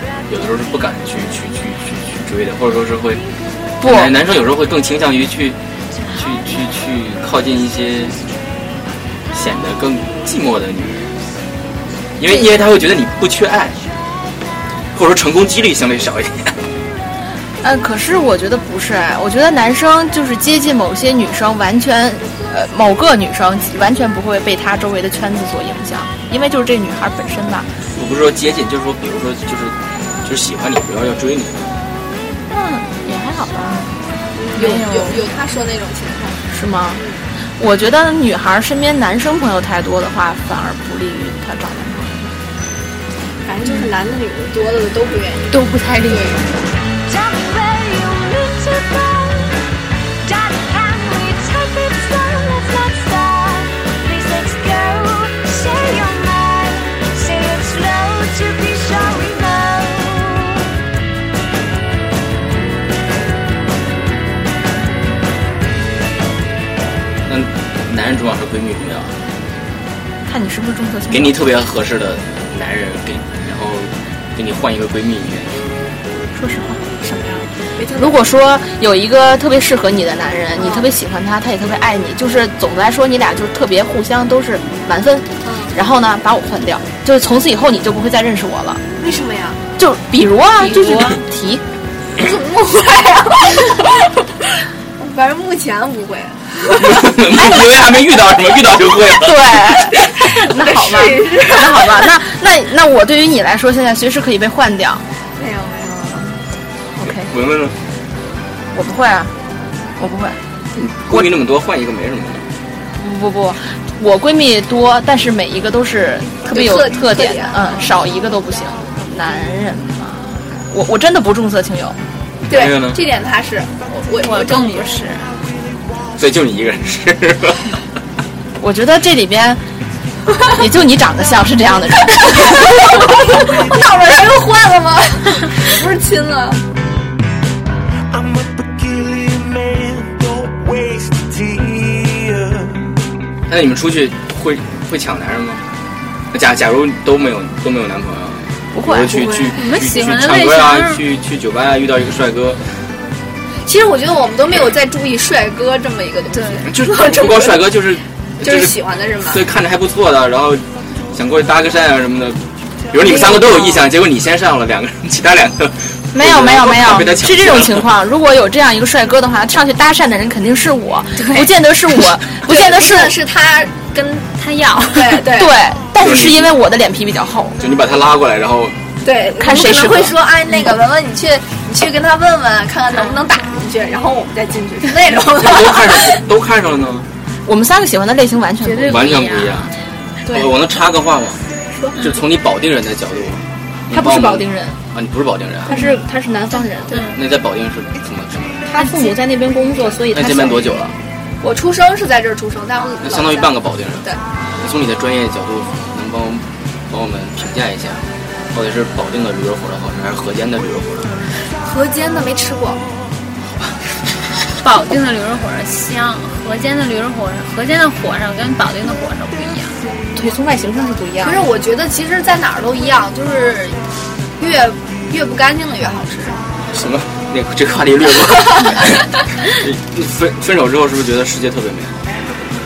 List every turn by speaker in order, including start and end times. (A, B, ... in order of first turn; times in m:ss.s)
0:00.3-0:03.2 A
0:03.8-0:04.1 B
0:03.8-0:05.6 A
0:06.1-0:08.2 A
0:09.3-0:11.1 A
0:12.2-0:13.8 A
0:14.9-0:16.6 A
0:17.6-0:27.7 B
0:28.0-0:31.6 A
0:32.5-0:33.9 B
0:34.4-0:36.4 C
0:34.6-0:35.2 B
0:36.5-0:37.0 B
0:37.6-0:42.2 B
0:43.4-0:46.4 C
0:45.5-0:46.4 D
0:47.1-0:49.7 E
0:50.2-1:00.7 E
1:07.3-1:09.1 A
1:10.2-1:11.4 B
1:11.1-1:15.7 A
1:16.3-1:28.8 B
1:17.8-1:18.2 C
1:20.6-1:20.9 C
1:25.4-1:25.8 C
1:29.0-1:29.6 C
1:29.8-1:31.6 B
1:32.2-1:33.9 C
1:35.0-1:36.5 C
1:36.7-1:39.8 A
1:39.1-1:45.0 B
1:40.6-1:41.8 C
1:45.4-1:46.2 C
1:47.0-1:47.3 B
1:47.1-1:47.8 A
1:48.7-1:49.3 B
1:50.0-1:50.4 B
1:50.8-1:52.5 A
1:53.0-2:02.0 B
1:56.4-1:57.7 C
2:02.5-2:04.9 C
2:02.5-2:03.0 A
2:04.2-2:05.3 D
2:06.2-2:07.8 A
2:08.6-2:09.6 B
2:10.5-2:13.2 B
2:13.1-2:16.6 C
2:18.1-2:22.9 F
2:23.5-2:25.6 A
2:26.3-2:32.6 A
2:28.7-2:29.5 B
2:29.5-2:31.0 D
2:33.6-2:37.6 C
2:36.7-2:47.9 A
2:38.4-2:39.4 C
2:43.0-2:43.8 C
2:46.1-2:53.1 B
2:52.3-2:55.5 C
2:54.4-2:55.2 D
2:55.2-2:57.6 B
2:56.0-2:56.5 A
2:57.6-2:58.8 A
2:59.0-3:06.2 C
2:59.4-3:00.1 B
3:05.4-3:07.1 A
3:07.5-3:09.1 B
3:08.6-3:09.7 D
3:08.8-3:09.7 A
3:10.3-3:11.4 A
3:12.0-3:15.7 A
3:13.9-3:14.8 B
3:15.7-3:17.0 B
3:15.7-3:15.9 D
3:16.9-3:17.2 D
3:17.1-3:18.6 A
3:18.7-3:20.8 B
3:18.8-3:19.1 D
3:20.1-3:21.0 A
3:21.4-3:24.2 C
3:23.0-3:24.1 A
3:24.6-3:31.2 A
3:31.6-3:32.8 C
3:33.4-3:33.8 A
3:34.6-3:39.8 D
3:40.1-3:41.4 B
3:41.2-3:43.8 C
3:44.4-3:46.4 C
3:46.7-3:52.0 A